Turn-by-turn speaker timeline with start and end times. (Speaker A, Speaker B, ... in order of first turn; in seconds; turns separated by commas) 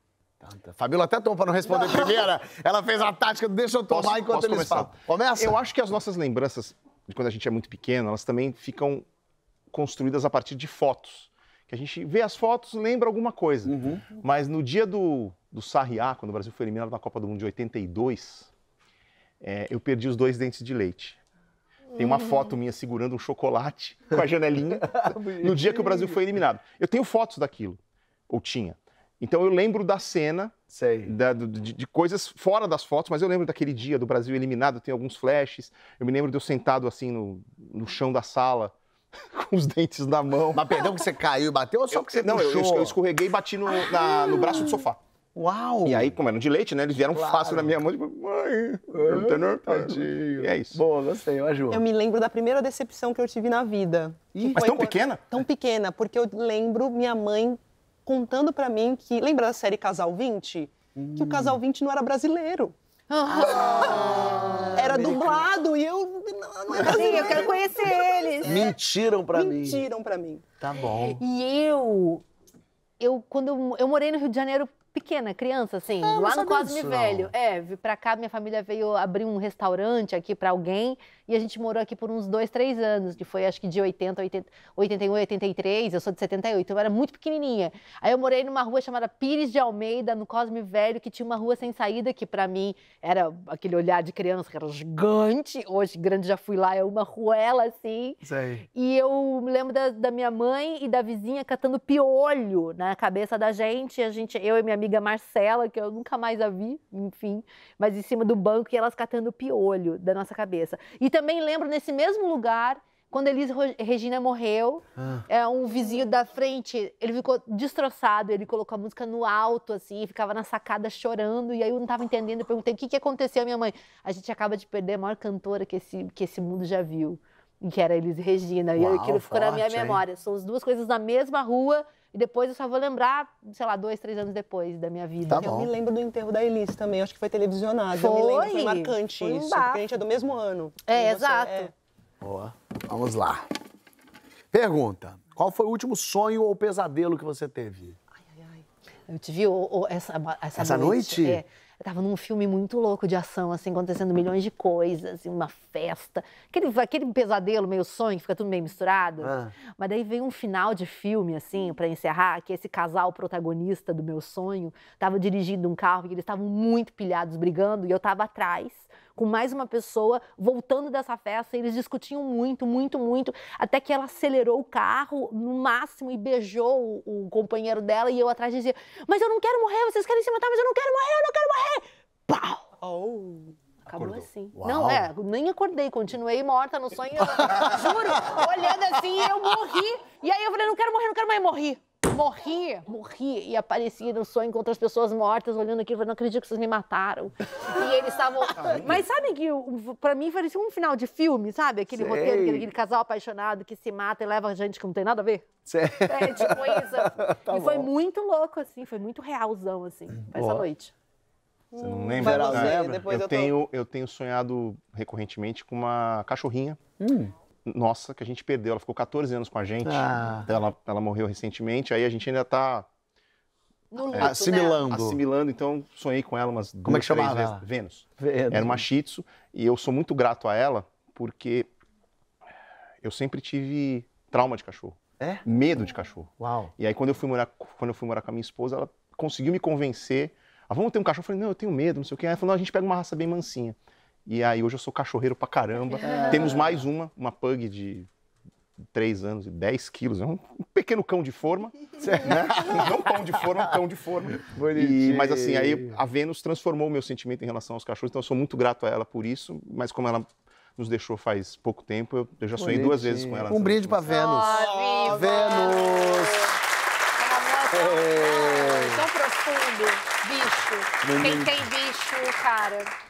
Speaker A: 0.4-5.6, Speaker B: 3.9-9.1, Speaker B: 9.7-18.5, Speaker A: 13.7-14.1, Speaker B: 19.4-21.2, Speaker C: 21.9-22.5, Speaker B: 21.9-38.7, Speaker A: 24.7-26.2, Speaker A: 30.7-31.1, Speaker B: 39.3-40.8, Speaker A: 40.5-43.0, Speaker B: 41.9-45.0, Speaker A: 44.0-44.8, Speaker A: 45.3-46.1, Speaker B: 45.8-50.8, Speaker A: 47.1-47.8, Speaker A: 48.9-51.8, Speaker D: 51.7-62.7, Speaker A: 54.3-54.6, Speaker B: 54.5-55.3, Speaker A: 60.9-61.6, Speaker C: 63.1-64.7, Speaker D: 63.4-68.8, Speaker A: 63.6-65.5, Speaker C: 66.7-68.6, Speaker A: 68.4-69.8, Speaker D: 69.3-70.4, Speaker A: 70.6-71.2, Speaker C: 71.1-72.2, Speaker C: 73.0-98.2, Speaker A: 76.0-77.3, Speaker A: 98.2-98.6, Speaker C: 98.7-135.5, Speaker A: 115.0-115.2, Speaker A: 128.8-130.0, Speaker A: 135.3-135.7, Speaker D: 135.4-141.7, Speaker C: 137.9-139.8, Speaker C: 140.9-141.7, Speaker A: 142.2-143.5, Speaker A: 144.5-148.0, Speaker D: 148.2-148.6, Speaker C: 149.1-182.7, Speaker A: 150.6-151.4, Speaker A: 159.2-159.5, Speaker D: 182.8-183.5, Speaker C: 183.8-205.4, Speaker B: 183.9-184.2, Speaker A: 184.6-185.1, Speaker A: 201.9-202.7, Speaker A: 205.7-207.9, Speaker C: 206.0-210.9, Speaker A: 210.3-210.7, Speaker D: 211.7-213.5, Speaker B: 211.8-216.8, Speaker A: 212.2-213.0, Speaker A: 217.0-217.3, Speaker B: 217.7-222.9, Speaker A: 219.8-220.5, Speaker C: 223.9-224.8, Speaker A: 224.1-225.2, Speaker B: 224.1-231.7, Speaker A: 226.8-227.6, Speaker A: 228.2-228.8, Speaker B: 233.0-248.1, Speaker A: 236.4-236.7, Speaker A: 246.1-246.5, Speaker B: 248.9-264.3, Speaker A: 252.0-252.9, Speaker A: 254.4-256.0, Speaker A: 262.6-266.4, Speaker C: 264.1-266.4, Speaker D: 264.5-265.6, Speaker C: 267.2-272.9, Speaker A: 267.7-269.0, Speaker A: 271.0-271.6